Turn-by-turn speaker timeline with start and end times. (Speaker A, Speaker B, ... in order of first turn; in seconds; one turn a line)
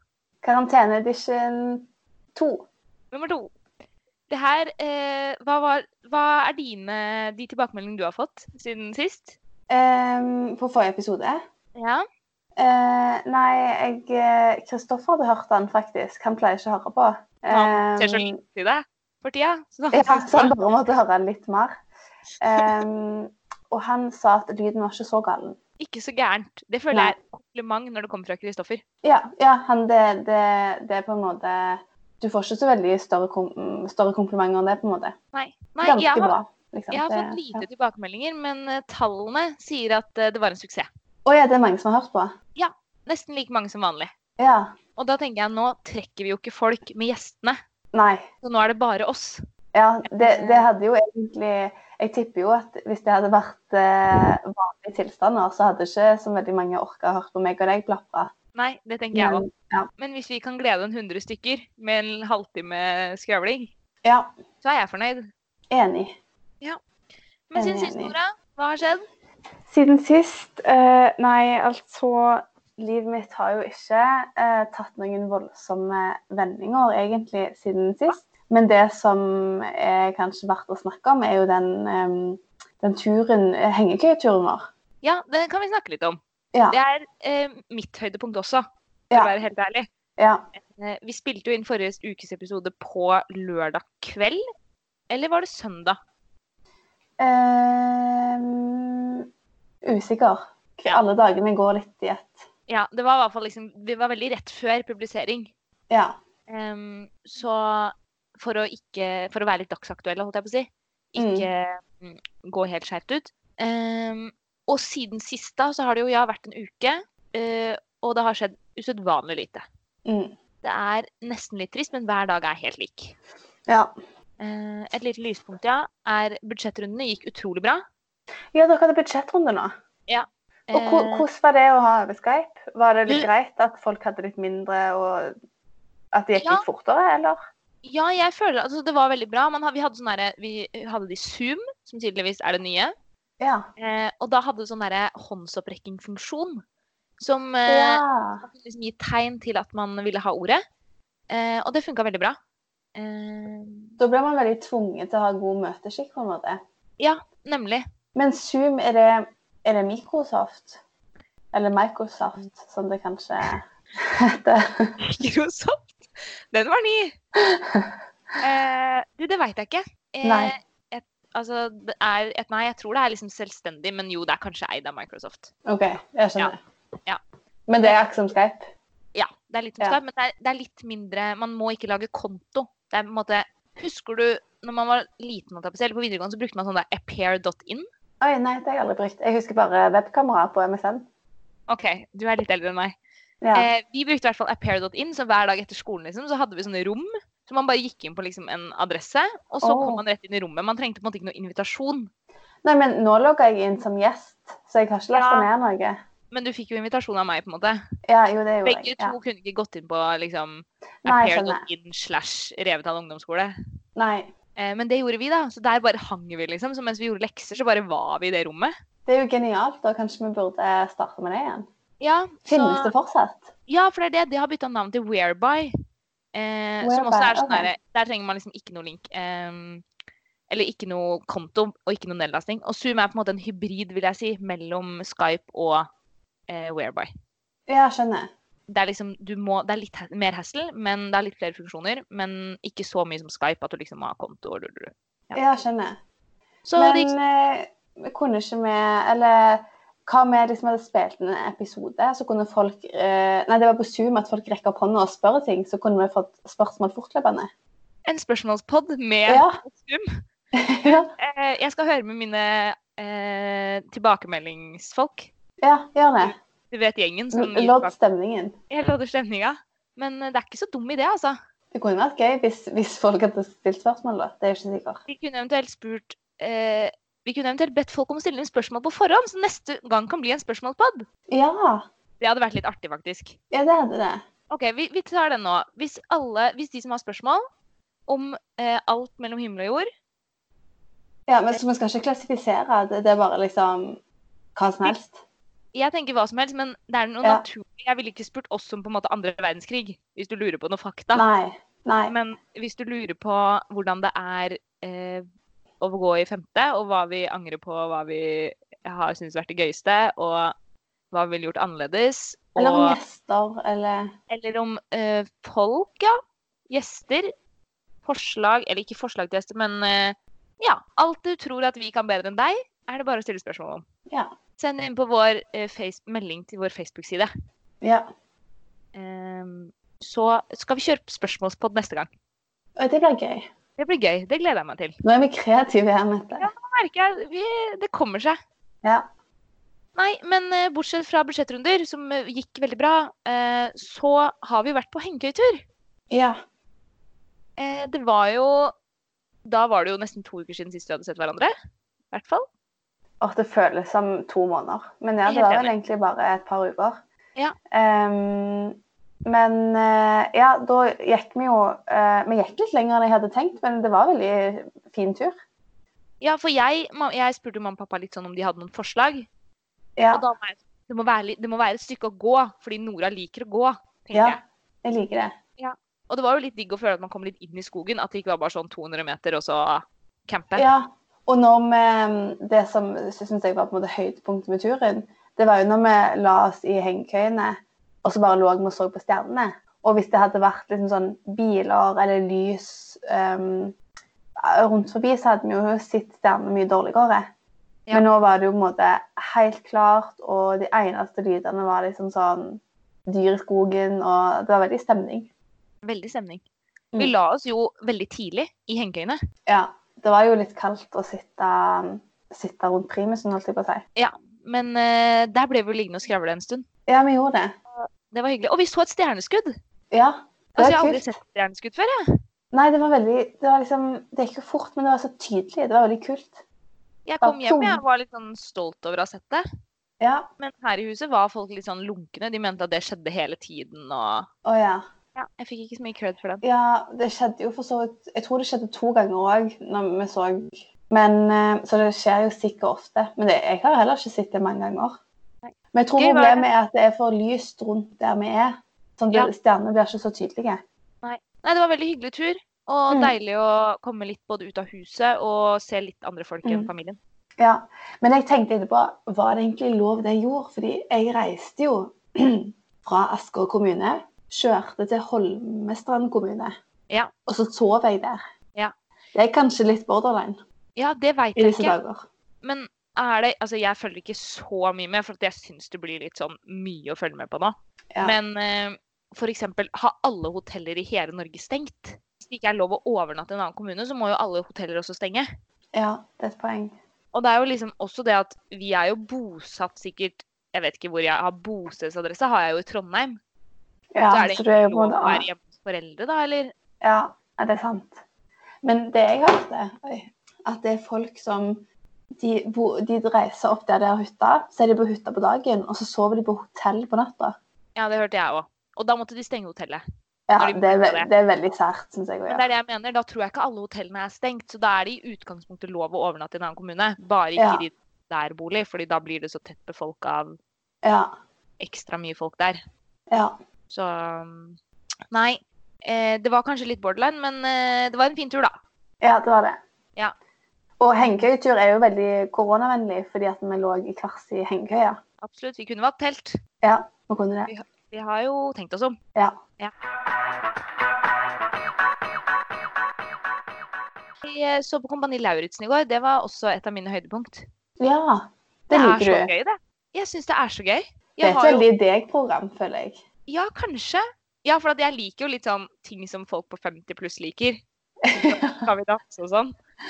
Speaker A: 0.4-2.7
Speaker B: 3.1-3.5
Speaker B: 4.3-9.3
Speaker A: 9.7-11.4
Speaker B: 11.8-12.0
Speaker A: 12.6-18.3
Speaker B: 17.5-20.6
Speaker A: 19.9-21.7
Speaker A: 22.4-25.6
Speaker B: 25.8-28.8
Speaker A: 29.0-35.1
Speaker B: 35.3-36.3
Speaker A: 35.8-37.6
Speaker B: 36.9-40.9
Speaker A: 41.2-42.3
Speaker B: 42.5-44.1
Speaker A: 44.4-44.7
Speaker B: 45.0-47.6
Speaker A: 47.9-48.2
Speaker B: 48.4-49.4
Speaker A: 49.7-58.3
Speaker B: 50.1-50.7
Speaker B: 58.5-63.7
Speaker A: 59.1-59.9
Speaker A: 64.0-64.3
Speaker B: 64.6-65.3
Speaker A: 65.7-66.2
Speaker B: 67.5-69.0
Speaker A: 67.5-68.1
Speaker A: 69.7-84.7
Speaker B: 85.0-86.2
Speaker B: 86.7-89.9
Speaker A: 90.2-90.4
Speaker B: 90.5-94.4
Speaker B: 95.1-96.0
Speaker A: 97.2-99.2
Speaker A: 99.8-102.4
Speaker B: 102.7-105.5
Speaker A: 105.9-106.2
Speaker B: 106.5-119.6
Speaker A: 111.2-111.5
Speaker A: 120.0-120.3
Speaker B: 120.6-123.2
Speaker B: 124.4-127.8
Speaker A: 128.5-129.7
Speaker B: 130.1-131.2
Speaker A: 130.7-135.3
Speaker A: 136.1-137.4
Speaker B: 136.4-136.6
Speaker B: 137.8-142.9
Speaker A: 143.4-143.7
Speaker B: 143.8-146.6
Speaker B: 147.2-150.6
Speaker A: 147.7-148.4
Speaker B: 151.3-152.3
Speaker B: 152.9-154.0
Speaker A: 154.0-156.6
Speaker B: 157.0-157.8
Speaker A: 158.1-160.8
Speaker A: 161.5-164.9
Speaker B: 165.0-166.0
Speaker B: 166.5-167.2
Speaker A: 167.4-167.9
Speaker B: 168.4-175.5
Speaker A: 170.2-170.5
Speaker A: 175.7-176.6
Speaker B: 176.4-177.2
Speaker A: 177.7-178.7
Speaker B: 179.1-187.8
Speaker A: 188.2-191.1
Speaker B: 191.7-193.0
Speaker A: 193.4-193.7
Speaker B: 193.5-202.1
Speaker A: 199.6-200.0
Speaker A: 202.6-206.0
Speaker B: 205.1-205.5
Speaker B: 206.3-207.8
Speaker A: 208.1-209.2
Speaker B: 208.6-213.5
Speaker A: 211.1-211.6
Speaker A: 213.9-214.3
Speaker B: 214.6-218.7
Speaker A: 219.1-221.7
Speaker B: 222.0-222.9
Speaker A: 222.5-223.5
Speaker B: 223.7-225.7
Speaker B: 226.3-229.8
Speaker A: 226.8-227.7
Speaker B: 230.5-235.9
Speaker B: 236.5-237.1
Speaker A: 237.7-238.3
Speaker B: 238.7-245.4
Speaker A: 245.3-246.0
Speaker B: 246.7-247.2
Speaker A: 246.8-257.5
Speaker B: 258.1-260.0
Speaker A: 259.3-259.6
Speaker A: 260.5-261.1
Speaker B: 261.2-265.3
Speaker A: 265.6-266.3
Speaker B: 266.2-267.9
Speaker A: 267.3-268.5
Speaker B: 268.7-271.3
Speaker A: 271.7-275.0
Speaker B: 275.1-281.1
Speaker A: 281.3-281.8
Speaker B: 282.2-283.4
Speaker A: 283.5-284.2
Speaker B: 284.5-287.4
Speaker B: 288.1-289.9
Speaker A: 291.3-294.0
Speaker A: 294.6-295.2
Speaker B: 295.7-301.2
Speaker A: 301.1-302.1
Speaker B: 302.1-305.2
Speaker B: 305.8-310.5
Speaker B: 311.1-313.0
Speaker A: 312.6-314.1
Speaker B: 314.3-316.1
Speaker B: 316.7-317.3
Speaker B: 318.0-323.8
Speaker B: 324.6-327.3
Speaker B: 328.9-332.1
Speaker A: 332.8-333.5
Speaker B: 333.8-334.9
Speaker A: 335.0-336.5
Speaker B: 336.4-338.4
Speaker B: 339.9-345.6
Speaker A: 346.1-346.4
Speaker B: 347.6-348.7
Speaker B: 349.4-351.5
Speaker B: 352.1-352.4
Speaker A: 353.2-357.0
Speaker B: 355.2-355.7
Speaker A: 357.7-365.3
Speaker B: 366.2-369.3
Speaker A: 370.0-370.2
Speaker B: 370.1-374.4
Speaker A: 374.1-375.3
Speaker B: 375.6-380.7
Speaker A: 380.6-393.7
Speaker A: 394.4-397.3
Speaker A: 397.9-405.3
Speaker B: 405.8-406.4
Speaker B: 407.0-409.2
Speaker A: 409.5-413.8
Speaker B: 413.9-416.6
Speaker A: 416.9-417.5
Speaker B: 417.8-419.5
Speaker A: 419.9-421.1
Speaker B: 420.6-422.0
Speaker A: 422.5-426.4
Speaker B: 427.1-429.4
Speaker A: 427.2-427.8
Speaker A: 430.0-430.3
Speaker B: 430.4-434.3
Speaker A: 434.4-434.8
Speaker B: 435.1-436.4
Speaker A: 436.4-445.0
Speaker B: 445.4-446.5
Speaker A: 445.7-450.6
Speaker B: 451.0-457.0
Speaker A: 456.4-456.7
Speaker A: 457.4-466.5
Speaker A: 467.3-468.2
Speaker A: 469.1-470.4
Speaker B: 470.8-471.8
Speaker A: 471.4-472.1
Speaker B: 472.4-485.2
Speaker A: 485.7-486.8
Speaker B: 487.1-493.2
Speaker A: 493.9-495.2
Speaker B: 494.1-496.5
Speaker A: 496.8-498.0
Speaker A: 498.6-501.6
Speaker A: 502.2-507.4
Speaker B: 507.8-509.8
Speaker A: 510.3-512.4
Speaker B: 510.4-511.1
Speaker B: 512.3-520.4
Speaker A: 517.4-517.6
Speaker A: 520.8-521.1
Speaker B: 521.6-522.5
Speaker A: 523.1-523.3
Speaker B: 523.7-524.6
Speaker B: 525.1-528.5
Speaker A: 529.0-529.6
Speaker A: 530.8-535.0
Speaker B: 535.2-536.4
Speaker A: 536.6-537.5
Speaker B: 537.5-538.9
Speaker B: 544.2-547.4
Speaker A: 547.8-549.3
Speaker B: 548.7-551.7
Speaker A: 551.2-553.0
Speaker B: 553.3-557.6
Speaker A: 558.0-558.6
Speaker B: 558.1-559.5